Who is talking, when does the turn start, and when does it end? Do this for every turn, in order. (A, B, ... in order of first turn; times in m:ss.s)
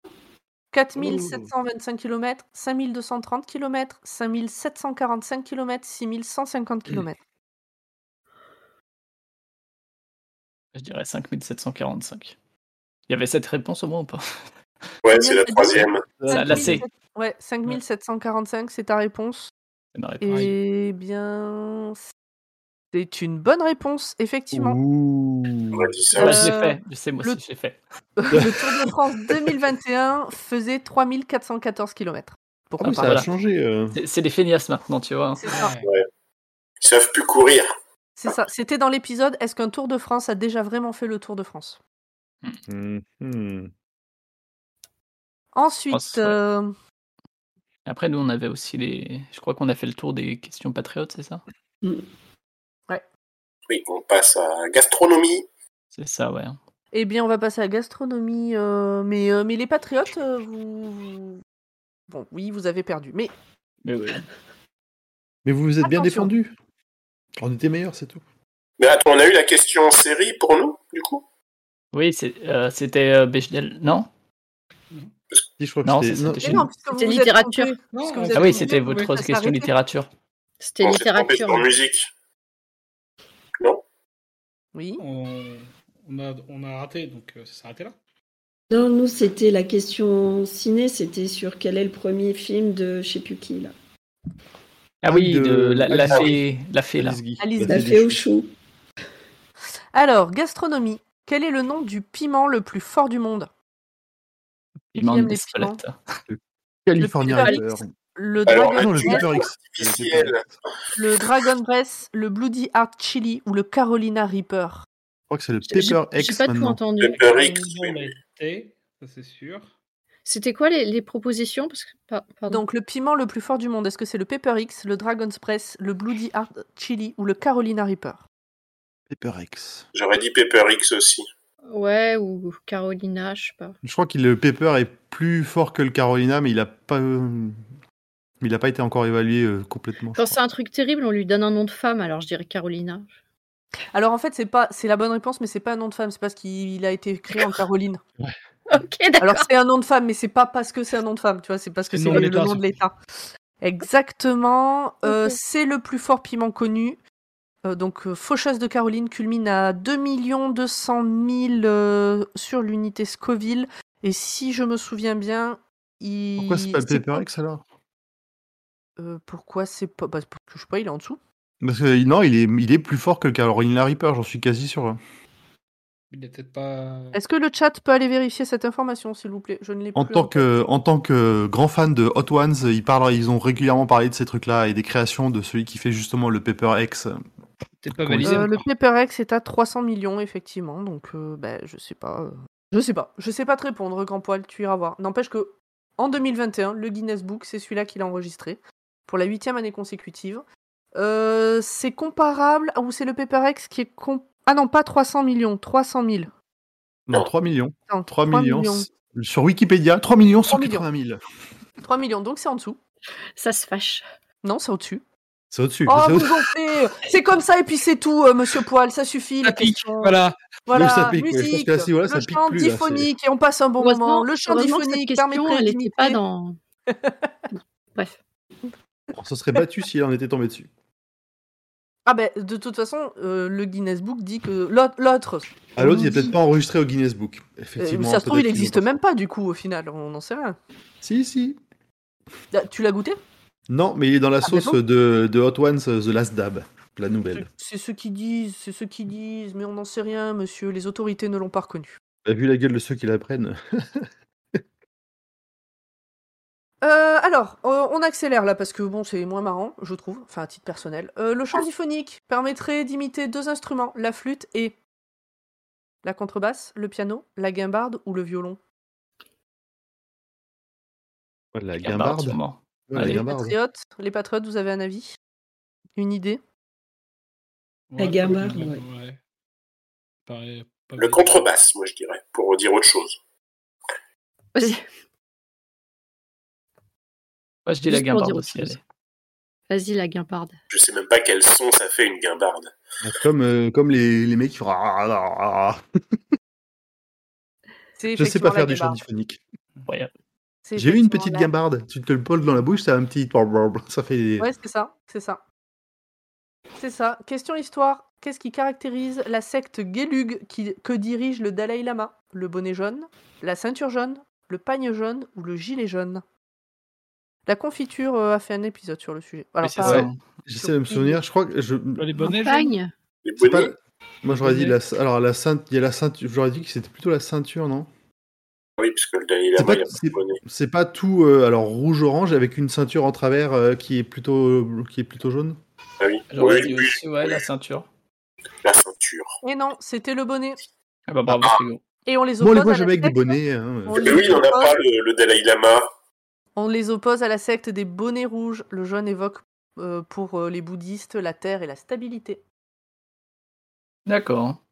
0:00.7-0:07.2 A
0:10.8-0:12.4 B
0:13.1-0:14.4 B
0:15.0-0:16.0 C
0:15.1-0:19.5 A
0:16.2-0:16.7 D
0:16.3-0:16.8 B
0:20.0-0:20.5 B
0:20.2-0:22.0 A
0:22.9-0:24.8 A
0:24.5-0:25.9 D
0:25.7-0:26.5 C
0:26.2-0:27.4 A
0:26.2-0:27.8 B
0:28.2-0:33.2 A
0:28.3-0:28.6 D
0:32.8-0:34.0 D
0:32.8-0:33.3 B
0:33.9-0:35.4 B
0:35.4-0:35.8 A
0:35.5-0:35.9 E
0:36.8-0:37.7 C
0:38.2-0:41.8 A
0:42.7-0:43.7 D
0:45.6-0:46.8 A
0:45.9-0:46.4 B
0:47.9-0:51.4 B
0:53.7-0:55.4 C
0:55.9-0:56.6 B
0:56.9-1:01.4 A
1:02.1-1:03.3 A
1:03.8-1:04.2 B
1:05.4-1:06.6 D
1:05.8-1:06.3 A
1:07.4-1:08.2 D
1:08.8-1:11.2 C
1:11.9-1:14.1 B
1:15.6-1:16.7 D
1:15.8-1:16.7 B
1:16.4-1:19.7 A
1:16.9-1:17.8 F
1:17.9-1:19.2 E
1:18.3-1:20.1 B
1:20.6-1:21.7 F
1:20.8-1:22.1 C
1:24.7-1:25.0 A
1:25.0-1:28.0 E
1:28.7-1:33.7 G
1:35.0-1:37.2 B
1:35.1-1:36.4 D
1:37.0-1:38.2 D
1:37.4-1:37.9 A
1:37.6-1:38.5 G
1:39.9-1:43.5 A
1:44.9-1:46.0 B
1:45.0-1:45.8 A
1:46.3-1:47.9 D
1:47.0-1:49.3 A
1:47.3-1:47.6 F
1:48.4-1:50.4 C
1:48.8-1:50.5 D
1:51.0-1:54.9 A
1:55.3-1:56.8 D
1:55.7-1:57.5 F
1:57.0-1:58.1 C
1:57.2-1:59.7 E
2:00.3-2:02.6 F
2:02.5-2:08.3 A
2:09.1-2:09.9 D
2:09.9-2:11.3 C
2:11.7-2:13.8 F
2:13.8-2:17.6 D
2:18.4-2:20.4 D
2:20.2-2:23.1 F
2:23.9-2:28.0 A
2:28.7-2:29.5 F
2:29.2-2:33.0 A
2:31.9-2:32.8 E
2:33.6-2:37.0 A
2:35.0-2:35.4 F
2:37.6-2:47.2 A
2:46.4-2:47.6 D
2:49.0-2:51.2 A
2:51.6-2:55.0 D
2:56.1-2:57.2 E
2:57.1-3:00.4 A
3:00.0-3:07.2 D
3:07.8-3:08.7 E
3:08.0-3:08.4 D
3:08.2-3:26.3 A
3:27.1-3:31.2 D
3:27.9-3:28.9 A
3:30.5-3:30.9 A
3:31.8-3:32.8 A
3:33.4-3:34.1 F
3:34.4-3:35.0 A
3:35.5-3:36.4 D
3:35.9-3:40.2 A
3:39.4-3:40.4 E
3:40.7-3:46.2 A
3:40.7-3:43.1 D
3:43.8-3:46.6 F
3:46.9-3:47.3 A
3:49.1-3:50.7 D
3:52.1-3:56.3 A
3:55.8-3:58.9 D
3:57.8-4:00.6 A
4:01.0-4:01.6 D
4:02.5-4:03.2 A
4:03.7-4:07.5 D
4:04.4-4:04.8 A
4:07.3-4:12.0 A
4:12.2-4:14.6 D
4:16.8-4:24.8 A
4:26.0-4:28.6 A
4:31.5-4:33.6 D
4:31.8-4:33.2 B
4:33.0-4:35.2 A
4:36.0-4:36.4 A
4:37.9-4:39.2 E
4:38.0-4:38.8 G
4:40.3-4:41.5 E
4:41.0-4:43.2 C
4:44.6-4:44.8 F
4:47.7-4:48.8 B
4:47.9-4:48.8 F
4:49.7-4:50.6 F
4:50.7-4:52.7 C
4:53.0-4:56.2 D
4:58.0-4:59.0 A
4:58.1-4:59.4 D
5:00.7-5:01.5 A
5:00.8-5:04.5 D
5:04.4-5:05.4 A
5:06.8-5:16.2 A
5:17.5-5:21.2 A
5:19.6-5:20.2 B
5:19.8-5:22.3 D
5:22.0-5:22.8 E
5:22.2-5:22.9 F
5:23.2-5:23.7 C
5:23.4-5:27.9 D
5:24.3-5:24.8 E
5:28.8-5:30.4 C
5:29.6-5:35.6 D
5:36.0-5:37.4 C
5:36.3-5:37.9 B
5:38.6-5:39.3 C
5:39.4-5:40.6 A
5:41.1-5:41.8 B
5:42.1-5:44.8 A
5:42.4-5:44.5 D
5:43.9-5:45.9 C
5:46.6-5:52.4 A
5:54.1-5:54.6 B